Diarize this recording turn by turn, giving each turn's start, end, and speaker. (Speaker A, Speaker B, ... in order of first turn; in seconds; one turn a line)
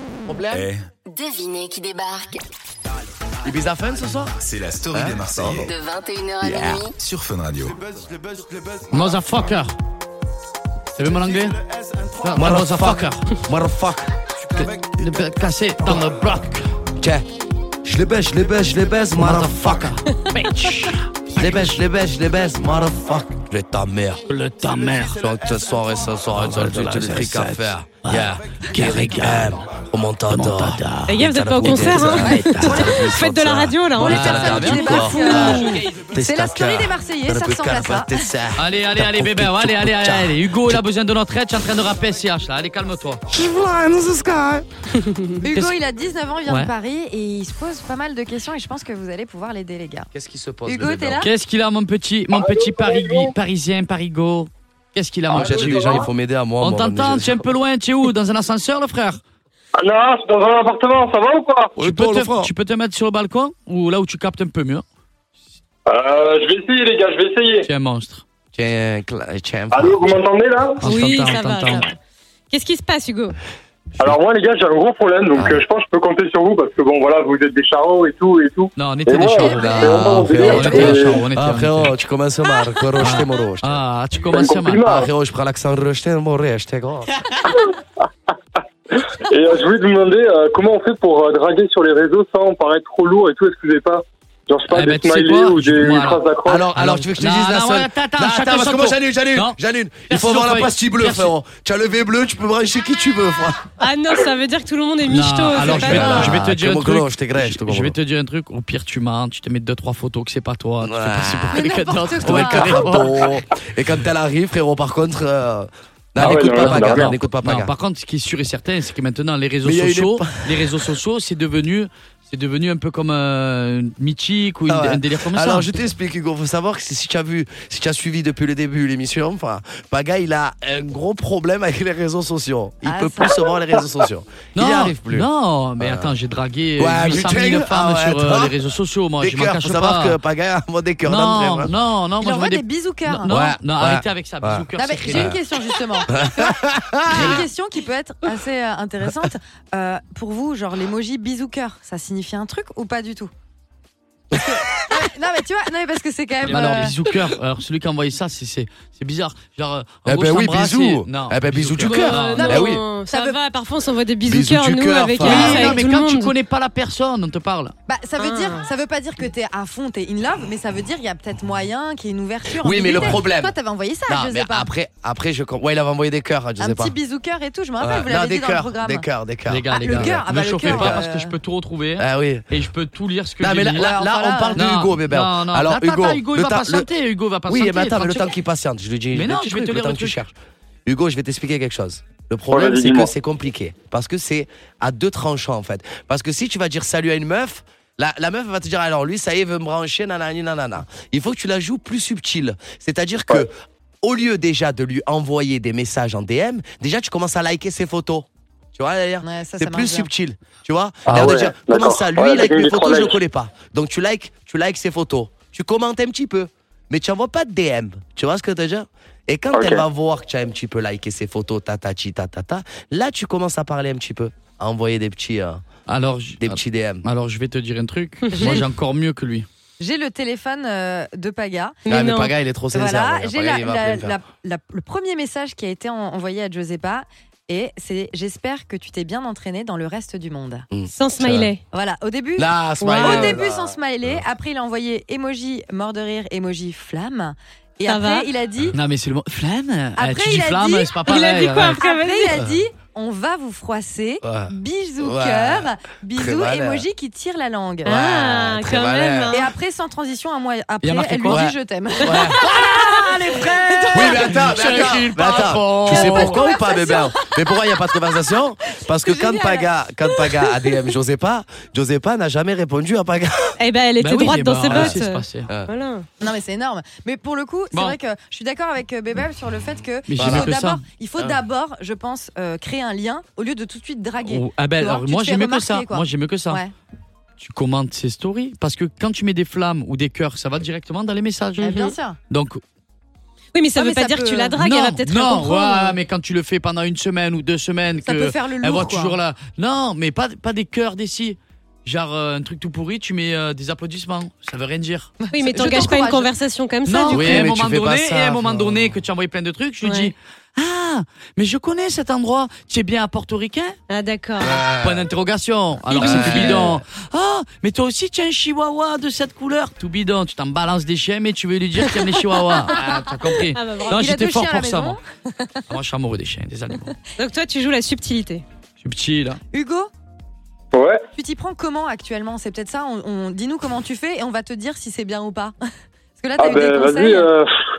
Speaker A: 0.2-0.7
Speaker B: 0.5-0.9
Speaker C: 1.1-2.4
Speaker A: 3.4-4.4
Speaker B: 4.4-5.8
Speaker A: 4.9-5.7
Speaker C: 5.6-7.0
Speaker A: 6.4-6.9
Speaker B: 6.5-7.8
Speaker D: 8.9-9.7
Speaker D: 10.9-11.6
Speaker D: 12.2-13.3
Speaker A: 12.3-14.1
Speaker D: 14.5-16.7
Speaker A: 17.0-17.2
Speaker A: 17.8-19.9
Speaker D: 19.1-21.8
Speaker A: 21.4-24.2
Speaker D: 24.3-25.3
Speaker A: 25.2-40.8
Speaker D: 26.3-29.6
Speaker D: 30.3-32.9
Speaker E: 31.1-35.8
Speaker F: 32.2-33.1
Speaker D: 34.0-35.8
Speaker F: 34.1-38.2
Speaker D: 38.5-43.2
Speaker A: 43.3-44.6
Speaker F: 45.4-50.1
Speaker D: 46.5-46.7
Speaker A: 50.1-51.2
Speaker F: 50.6-51.3
Speaker D: 51.2-56.0
Speaker G: 52.3-53.3
Speaker A: 55.3-57.5
Speaker G: 55.3-56.0
Speaker D: 56.6-59.2
Speaker G: 59.7-61.7
Speaker A: 61.8-62.5
Speaker D: 61.8-64.8
Speaker G: 65.9-67.7
Speaker D: 67.6-68.2
Speaker A: 68.5-70.2
Speaker G: 69.7-70.9
Speaker D: 70.8-71.8
Speaker E: 70.9-72.0
Speaker E: 72.5-73.4
Speaker G: 74.0-81.2
Speaker A: 75.3-75.6
Speaker D: 78.8-81.9
Speaker F: 79.3-81.0
Speaker A: 79.6-83.8
Speaker D: 83.0-85.0
Speaker G: 84.2-85.1
Speaker A: 84.8-87.1
Speaker G: 87.4-87.7
Speaker G: 88.9-96.7
Speaker D: 94.7-101.3
Speaker A: 96.4-103.6
Speaker E: 103.8-106.4
Speaker D: 105.0-113.3
Speaker A: 105.6-108.0
Speaker A: 110.8-111.7
Speaker F: 111.5-113.0
Speaker A: 112.2-117.7
Speaker G: 116.2-117.1
Speaker D: 116.2-125.7
Speaker A: 119.6-120.9
Speaker A: 124.7-135.3
Speaker F: 132.8-133.5
Speaker D: 134.5-140.2
Speaker A: 135.8-136.1
Speaker A: 136.8-138.6
Speaker A: 139.2-141.7
Speaker D: 141.0-145.4
Speaker F: 142.2-143.3
Speaker A: 143.3-145.4
Speaker F: 144.7-153.3
Speaker A: 146.1-147.4
Speaker F: 154.3-157.0
Speaker D: 156.4-162.6
Speaker A: 160.1-162.8
Speaker E: 161.8-166.3
Speaker F: 162.3-163.4
Speaker A: 164.3-165.8
Speaker D: 165.2-167.7
Speaker F: 165.3-165.7
Speaker F: 167.9-174.7
Speaker E: 168.2-168.6
Speaker A: 172.6-173.5
Speaker A: 174.1-176.9
Speaker F: 176.6-179.1
Speaker A: 177.8-181.0
Speaker D: 179.5-184.0
Speaker F: 179.7-181.3
Speaker A: 182.0-182.5
Speaker A: 183.4-186.9
Speaker F: 183.7-184.7
Speaker D: 184.5-188.3
Speaker A: 187.4-190.3
Speaker D: 189.1-190.2
Speaker A: 190.8-225.6
Speaker G: 192.5-193.1
Speaker F: 209.2-210.1
Speaker G: 211.1-213.2
Speaker G: 219.5-219.8
Speaker D: 225.9-229.5
Speaker A: 226.4-227.1
Speaker F: 228.3-228.6
Speaker F: 229.8-231.8
Speaker E: 231.8-232.3
Speaker A: 231.9-234.2
Speaker F: 232.7-240.7
Speaker A: 240.7-241.5
Speaker E: 240.9-241.6
Speaker F: 241.7-248.8
Speaker A: 242.4-244.2
Speaker E: 242.8-243.4
Speaker E: 247.8-248.3
Speaker D: 248.7-251.8
Speaker F: 249.9-251.1
Speaker E: 251.0-252.4
Speaker F: 251.7-258.0
Speaker A: 254.2-256.8
Speaker E: 257.8-259.4
Speaker A: 257.9-259.4
Speaker F: 259.3-267.7
Speaker D: 260.8-261.4
Speaker A: 261.3-262.4
Speaker D: 262.3-266.4
Speaker A: 263.9-273.6
Speaker F: 268.8-270.7
Speaker E: 273.6-276.1
Speaker D: 274.0-275.5
Speaker A: 274.6-275.7
Speaker F: 276.2-286.7
Speaker D: 280.1-280.8
Speaker A: 280.2-280.5
Speaker D: 284.2-286.6
Speaker D: 287.4-291.6
Speaker E: 291.6-291.9
Speaker F: 291.6-292.2
Speaker D: 292.3-292.6
Speaker E: 293.5-296.0
Speaker F: 293.7-294.6
Speaker D: 294.6-305.2
Speaker F: 298.0-299.2
Speaker F: 305.2-306.3
Speaker E: 305.3-307.5
Speaker D: 306.9-313.8
Speaker A: 307.1-308.9
Speaker E: 309.8-310.1
Speaker E: 313.9-314.7
Speaker A: 314.4-315.1
Speaker D: 314.7-325.0
Speaker A: 315.9-316.8
Speaker E: 315.9-316.5
Speaker F: 322.7-323.0
Speaker E: 323.5-323.9
Speaker F: 323.8-325.6
Speaker D: 325.7-327.0
Speaker E: 327.1-328.4
Speaker D: 328.8-329.4
Speaker F: 329.5-329.9
Speaker G: 330.7-331.0
Speaker F: 331.1-335.6
Speaker F: 336.2-337.3
Speaker G: 336.4-337.5